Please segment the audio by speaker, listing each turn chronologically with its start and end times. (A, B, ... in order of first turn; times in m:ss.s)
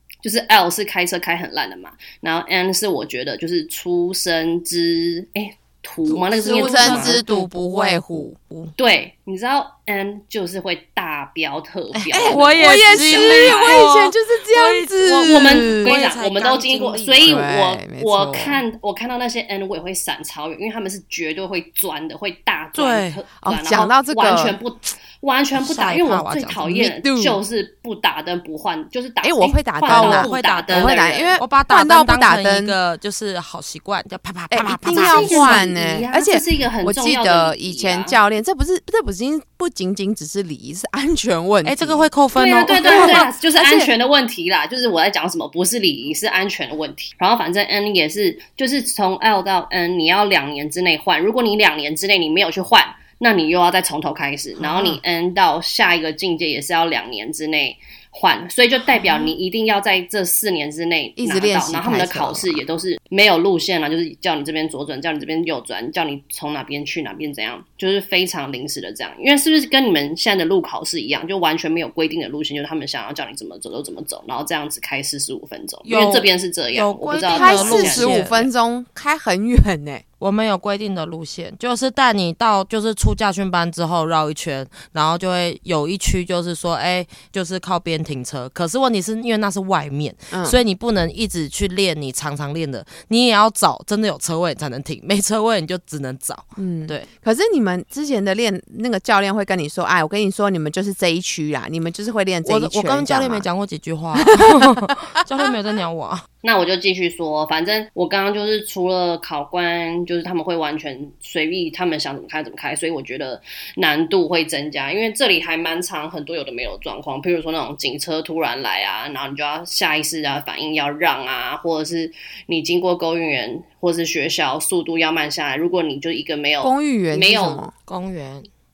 0:00.2-0:07.2 A
0:06.1-0:08.7 B
0:06.4-0:08.3 C
0:08.8-0:13.8 A
0:12.1-0:15.9 C
0:12.1-0:17.4 B
0:15.3-0:31.4 A
0:17.2-0:18.6 C
0:22.7-0:23.2 B
0:23.4-0:24.6 C
0:25.5-0:27.0 B
0:27.0-0:27.4 C
0:29.2-0:32.8 C
0:29.9-0:35.6 B
0:34.5-0:42.1 C
0:34.9-0:38.2 A
0:41.6-0:43.2 B
0:42.4-1:18.2 A
0:42.8-0:43.9 C
0:54.6-0:55.0 C
0:59.0-0:59.3 C
1:01.2-1:02.6 C
1:15.8-1:18.5 B
1:17.3-1:20.0 C
1:20.2-1:37.0 B
1:30.3-1:30.6 C
1:36.6-1:43.4 C
1:42.4-1:46.2 B
1:44.2-1:44.9 C
1:46.4-2:07.6 A
2:06.6-2:07.7 C
2:07.9-2:08.5 B